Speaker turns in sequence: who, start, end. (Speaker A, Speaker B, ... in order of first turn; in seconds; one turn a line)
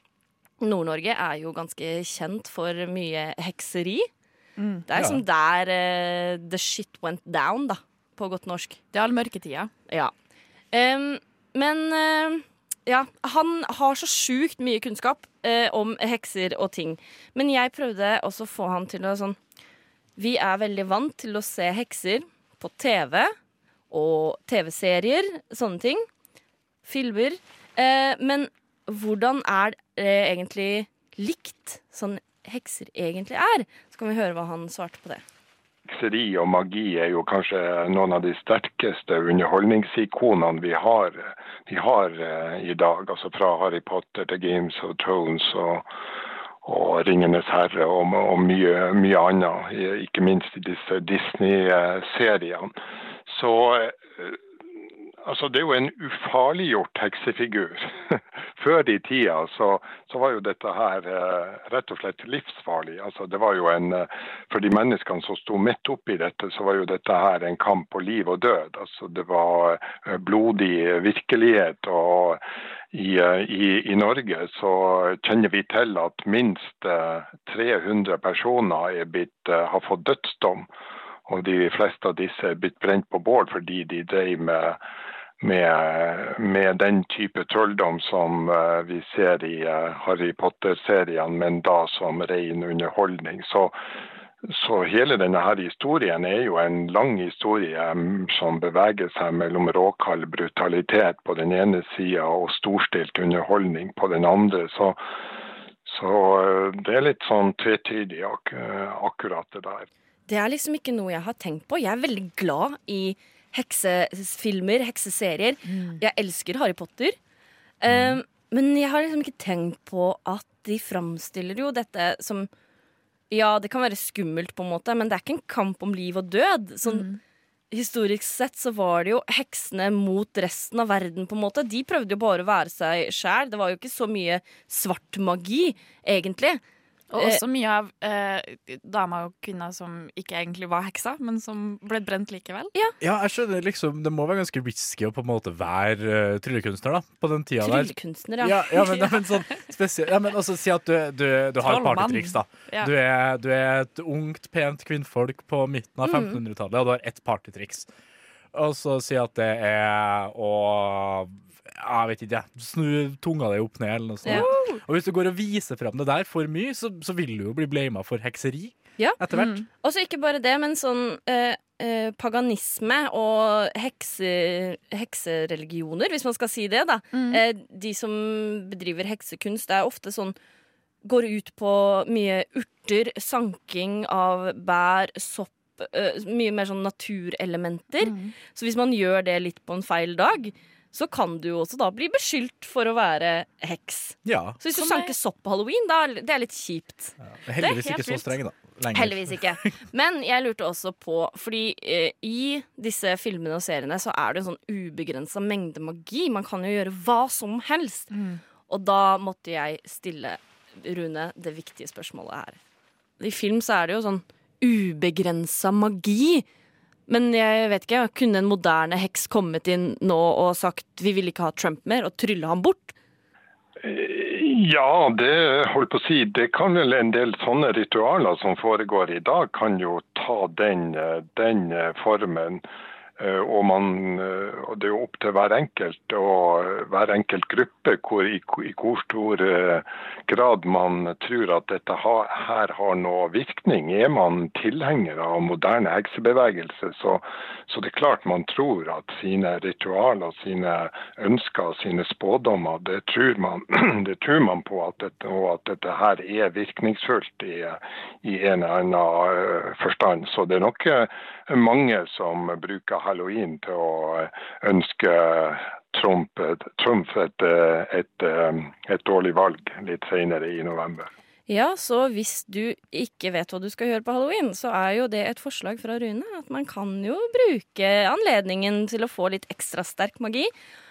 Speaker A: 0.6-4.1
Speaker B: 4.6-4.8
Speaker A: 4.9-8.8
Speaker C: 4.9-5.2
Speaker B: 8.9-9.7
Speaker A: 10.7-19.4
Speaker A: 20.2-23.3
Speaker A: 23.9-26.1
Speaker A: 26.9-35.2
Speaker D: 35.9-45.9
Speaker D: 46.6-52.7
Speaker D: 53.3-54.4
Speaker D: 55.2-72.4
Speaker D: 72.9-80.7
Speaker D: 81.3-84.8
Speaker D: 85.4-93.8
Speaker D: 94.5-105.0
Speaker D: 105.9-109.9
Speaker A: 110.3-117.2
Speaker B: 115.7-116.0
Speaker A: 117.8-122.5
Speaker C: 117.9-118.2
Speaker A: 123.3-127.1
Speaker B: 126.8-127.2
Speaker A: 127.7-136.6
Speaker B: 137.1-142.7
Speaker A: 137.2-137.4
Speaker C: 143.0-157.9
Speaker A: 147.6-149.0
Speaker B: 151.6-152.9
Speaker A: 156.1-156.4
Speaker C: 158.5-169.6
Speaker A: 164.2-164.8
Speaker B: 164.3-164.7
Speaker A: 169.0-180.4
Speaker B: 169.3-169.7
Speaker B: 177.1-177.4
Speaker A: 181.0-198.3
Speaker B: 188.0-188.3
Speaker C: 194.2-194.6
Speaker B: 194.7-195.2
Speaker C: 197.2-199.7
Speaker A: 198.9-208.1
Speaker B: 208.1-208.4
Speaker A: 208.7-212.6
Speaker A: 213.2-216.4
Speaker A: 217.1-222.9
Speaker D: 223.8-232.6
Speaker D: 233.2-271.1
Speaker A: 271.5-280.5